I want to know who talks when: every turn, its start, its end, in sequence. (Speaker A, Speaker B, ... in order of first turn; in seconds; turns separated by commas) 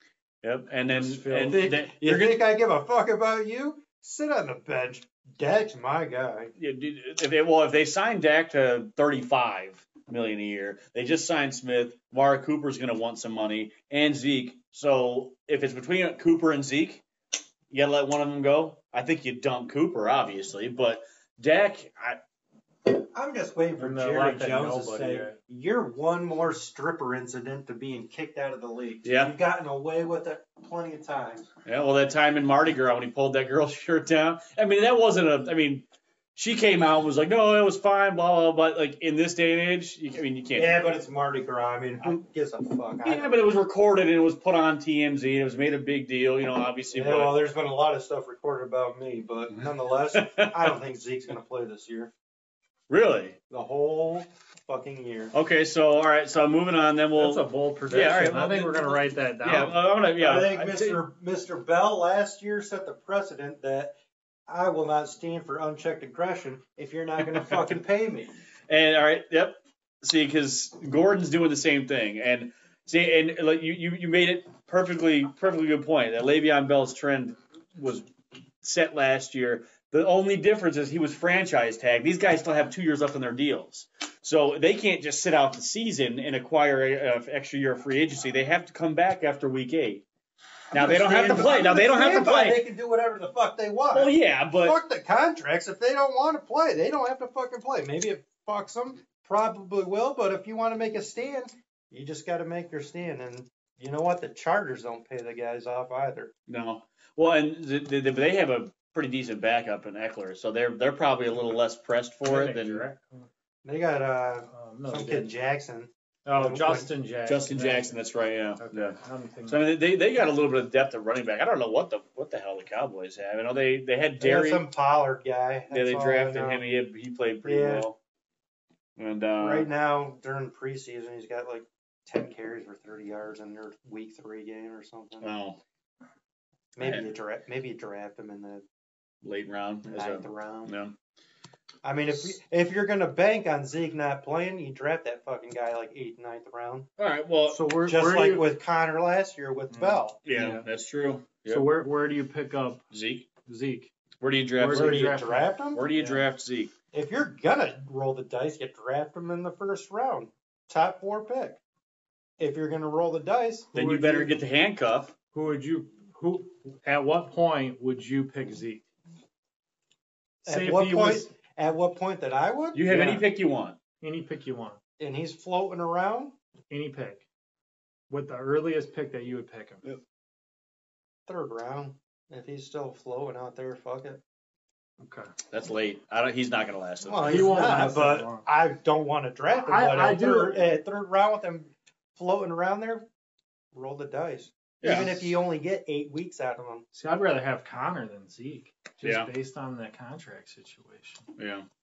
Speaker A: 0.4-2.4, Speaker B: 0.9-1.7, Speaker C: 1.4-6.5, Speaker A: 6.6-17.0, Speaker A: 17.7-22.2, Speaker C: 22.9-31.5, Speaker B: 23.8-25.4, Speaker A: 29.0-29.3, Speaker A: 31.6-40.9, Speaker C: 40.5-43.4, Speaker A: 43.0-47.4, Speaker C: 46.9-52.1, Speaker A: 50.1-50.8, Speaker A: 52.9-53.4, Speaker C: 53.5-55.3, Speaker A: 55.3-61.0, Speaker B: 57.1-59.8, Speaker C: 60.2-64.0, Speaker C: 64.5-68.3, Speaker A: 67.3-67.6, Speaker A: 68.7-78.1, Speaker A: 78.6-90.0, Speaker A: 90.7-92.6, Speaker C: 90.7-106.3, Speaker A: 93.9-94.8, Speaker A: 106.5-112.8, Speaker B: 112.2-113.3, Speaker C: 113.6-116.9, Speaker B: 114.5-115.3, Speaker B: 116.2-118.0, Speaker A: 117.2-119.0, Speaker B: 118.6-119.6, Speaker A: 119.5-124.6, Speaker C: 124.2-126.6, Speaker A: 125.7-128.0, Speaker C: 127.4-127.9, Speaker A: 128.9-129.7, Speaker C: 129.4-135.3, Speaker A: 135.2-135.6, Speaker C: 136.7-138.6, Speaker A: 136.8-137.1, Speaker A: 139.2-140.9, Speaker C: 139.8-140.7, Speaker C: 141.8-146.9, Speaker A: 147.0-147.7, Speaker B: 147.5-148.5, Speaker C: 147.8-150.2, Speaker B: 149.7-150.7, Speaker A: 150.2-151.9, Speaker B: 151.4-152.8, Speaker A: 152.9-153.3, Speaker B: 153.4-153.9, Speaker A: 154.2-155.0, Speaker B: 154.6-156.2, Speaker C: 154.6-155.9, Speaker A: 155.7-156.7, Speaker C: 156.9-161.6, Speaker C: 162.4-163.7, Speaker A: 163.7-165.1, Speaker B: 163.7-164.3, Speaker B: 165.3-168.8, Speaker C: 170.4-172.9, Speaker B: 170.4-171.3, Speaker A: 172.7-173.8, Speaker B: 172.9-173.2, Speaker B: 174.0-174.8, Speaker C: 175.0-176.3, Speaker B: 176.7-177.2, Speaker B: 178.1-179.8, Speaker C: 181.3-184.2, Speaker B: 185.0-185.3, Speaker A: 185.5-187.8, Speaker C: 187.0-193.1, Speaker B: 187.2-188.5, Speaker B: 189.6-190.8, Speaker C: 193.7-196.8, Speaker A: 194.8-195.4, Speaker B: 196.9-201.2, Speaker A: 199.0-199.3, Speaker A: 201.4-201.7